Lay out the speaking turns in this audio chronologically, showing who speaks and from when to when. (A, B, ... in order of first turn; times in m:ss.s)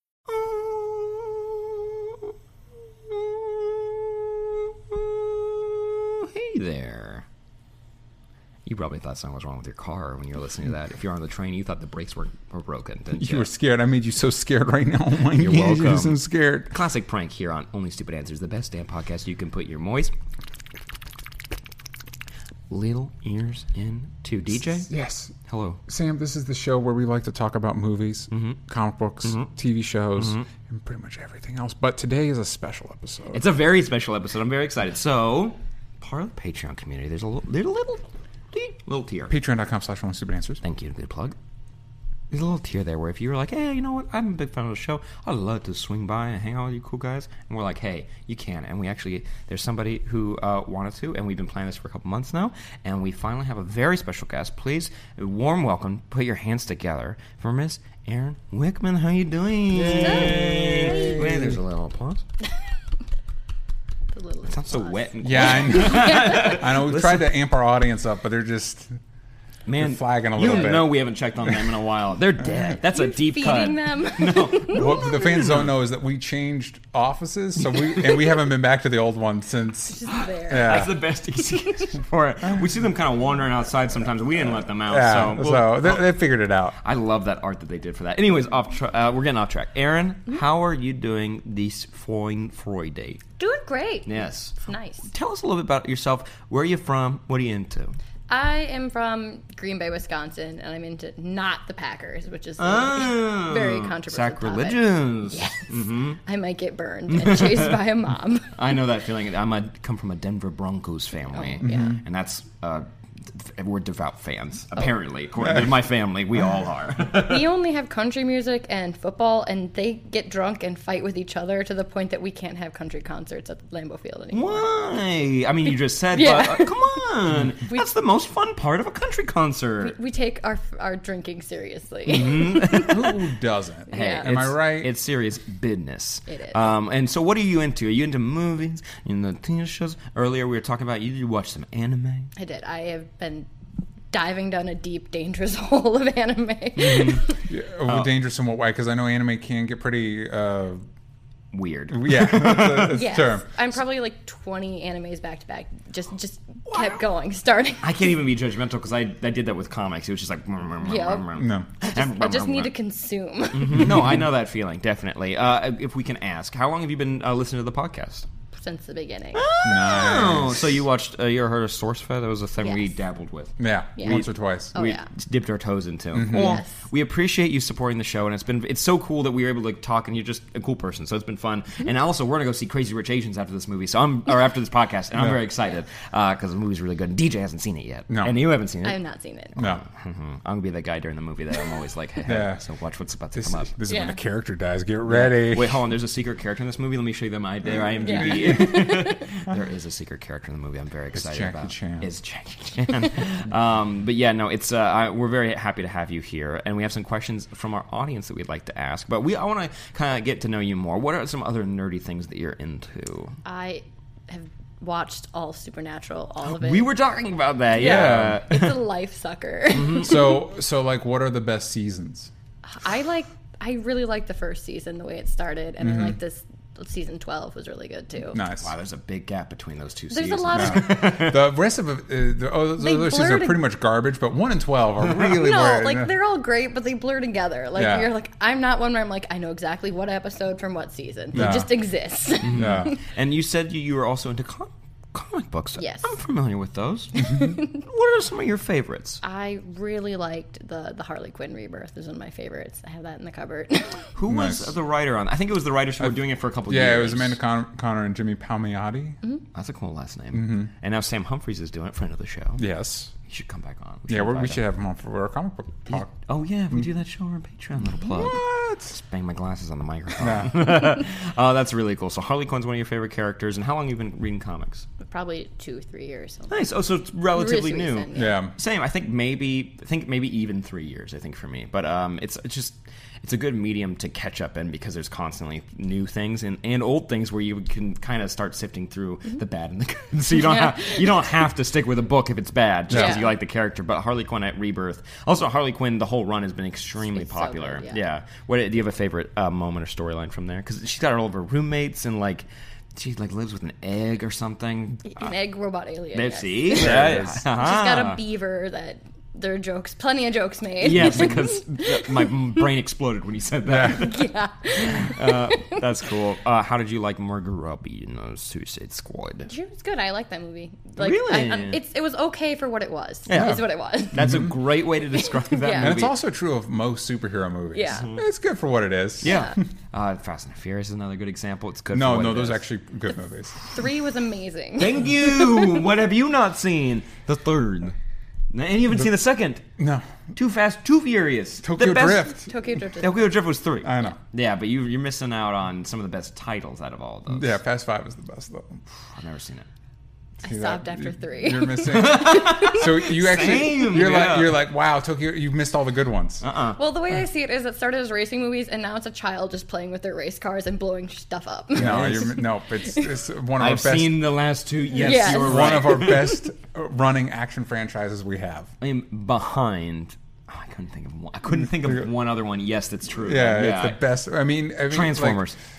0:00.3-0:02.3 A
0:03.1-0:07.2 A
0:08.6-0:13.5 A
0:13.1-0:16.7 B
0:15.3-0:16.2 A
0:16.7-0:20.1 A
0:22.7-0:24.9 A
0:24.9-0:25.3 B
0:25.5-0:25.8 A
0:25.9-0:33.4 B
0:28.3-0:28.6 A
0:29.2-0:29.5 A
0:30.2-0:30.5 A
0:33.3-0:39.3 A
0:39.3-0:40.6 B
0:40.6-0:41.4 A
0:42.3-1:02.2 A
0:59.7-1:01.6 B
0:59.9-1:01.2 C
1:04.1-1:06.6 C
1:04.4-1:07.3 A
1:05.2-1:08.9 B
1:09.6-1:15.7 A
1:09.8-1:11.7 B
1:12.8-1:15.1 C
1:14.7-1:20.9 B
1:19.9-1:20.9 C
1:20.1-1:26.1 A
1:24.9-1:26.7 B
1:26.8-1:33.2 A
1:33.4-1:35.1 C
1:34.0-1:38.0 A
1:38.3-1:48.6 C
1:42.6-1:46.2 A
1:47.1-1:47.8 A
1:48.5-1:57.5 A
1:51.3-1:52.0 C
1:51.6-1:52.0 B
1:57.2-2:04.7 C
2:04.3-2:09.9 A
2:06.1-2:07.0 C
2:09.8-2:12.9 C
2:12.0-2:13.2 A
2:12.7-2:14.9 B
2:13.9-2:14.3 C
2:13.9-2:22.3 A
2:16.3-2:16.6 C
2:22.4-2:23.5 C
2:24.1-2:27.4 C
2:26.8-2:27.3 A
2:27.5-2:30.8 B
2:31.5-2:33.1 A
2:31.9-2:33.5 B
2:32.9-2:38.1 C
2:36.7-2:37.0 A
2:37.8-2:42.7 A
2:40.8-2:41.3 C
2:41.3-2:41.7 B
2:41.9-2:44.0 C
2:43.5-2:48.3 A
2:48.5-2:49.5 C
2:49.3-3:09.0 A
2:49.6-2:50.8 B
2:52.6-2:52.9 C
2:53.6-2:54.7 B
2:54.7-2:55.1 C
2:56.1-2:56.6 B
2:56.3-2:56.8 C
3:08.1-3:08.4 B
3:08.8-3:09.6 C
3:09.6-3:13.8 A
3:09.6-3:09.8 B
3:12.2-3:12.6 B
3:13.3-3:15.8 B
3:13.9-3:14.2 C
3:15.0-3:33.4 A
3:18.0-3:19.5 B
3:18.0-3:19.2 C
3:21.1-3:22.1 B
3:33.4-3:36.9 C
3:36.4-3:38.8 A
3:37.7-3:40.4 C
3:37.8-3:38.4 B
3:39.7-3:40.2 A
3:39.9-3:42.3 B
3:42.7-3:48.4 C
3:45.8-3:46.2 B
3:48.3-3:48.7 B
3:48.6-3:51.4 A
3:50.1-3:51.0 C
3:50.5-3:56.1 B
3:52.8-3:53.6 C
3:55.2-4:03.0 C
3:57.8-3:58.1 B
4:01.3-4:01.7 B
4:02.4-4:09.2 A
4:02.5-4:02.9 B
4:05.8-4:06.1 C
4:07.1-4:07.8 C
4:09.2-4:14.1 C
4:14.1-4:17.4 A
4:14.3-4:14.7 B
4:16.7-4:19.2 B
4:19.5-4:22.6 A
4:20.3-4:20.7 B
4:22.6-4:23.1 B
4:23.3-4:24.6 A
4:24.1-4:26.1 B
4:25.9-4:34.8 A
4:28.0-4:28.9 B
4:30.2-4:30.8 B
4:35.0-4:36.6 C
4:36.5-5:05.2 A
4:37.3-4:38.4 C
4:38.1-4:38.5 B
4:52.9-4:53.2 B
4:52.9-4:53.2 C
4:57.1-4:58.0 C
5:05.0-5:12.3 C
5:06.1-5:08.2 A
5:06.7-5:07.4 B
5:10.8-5:14.3 A
5:13.7-5:14.0 B
5:13.8-5:15.8 C
5:14.8-5:19.5 A
5:19.4-5:24.4 C
5:21.0-5:21.8 A
5:23.3-5:26.1 A
5:23.3-5:23.6 B
5:24.1-5:24.5 B
5:25.2-5:25.9 C
5:25.8-5:29.3 B
5:27.7-5:28.1 C
5:29.2-5:32.6 A
5:29.2-5:29.6 C
5:31.9-5:33.7 B
5:33.7-5:35.7 C
5:34.8-5:37.9 A
5:38.5-5:39.6 A
5:39.8-5:40.2 B
5:40.3-5:42.4 A
5:41.6-5:42.5 B
5:42.3-5:43.3 C
5:43.0-5:47.6 A
5:43.8-5:44.2 B
5:47.3-5:48.8 B
5:49.2-5:49.7 A
5:50.4-5:52.8 C
5:50.4-5:56.4 B
5:51.8-5:54.6 A
5:56.4-5:56.8 A
5:56.8-6:03.0 C
6:01.7-6:04.2 B
6:01.8-6:02.3 A
6:03.6-6:06.4 A
6:04.9-6:06.4 C
6:05.0-6:08.7 B
6:08.8-6:14.0 A
6:11.8-6:12.1 B
6:13.1-6:15.4 B
6:14.9-6:15.6 A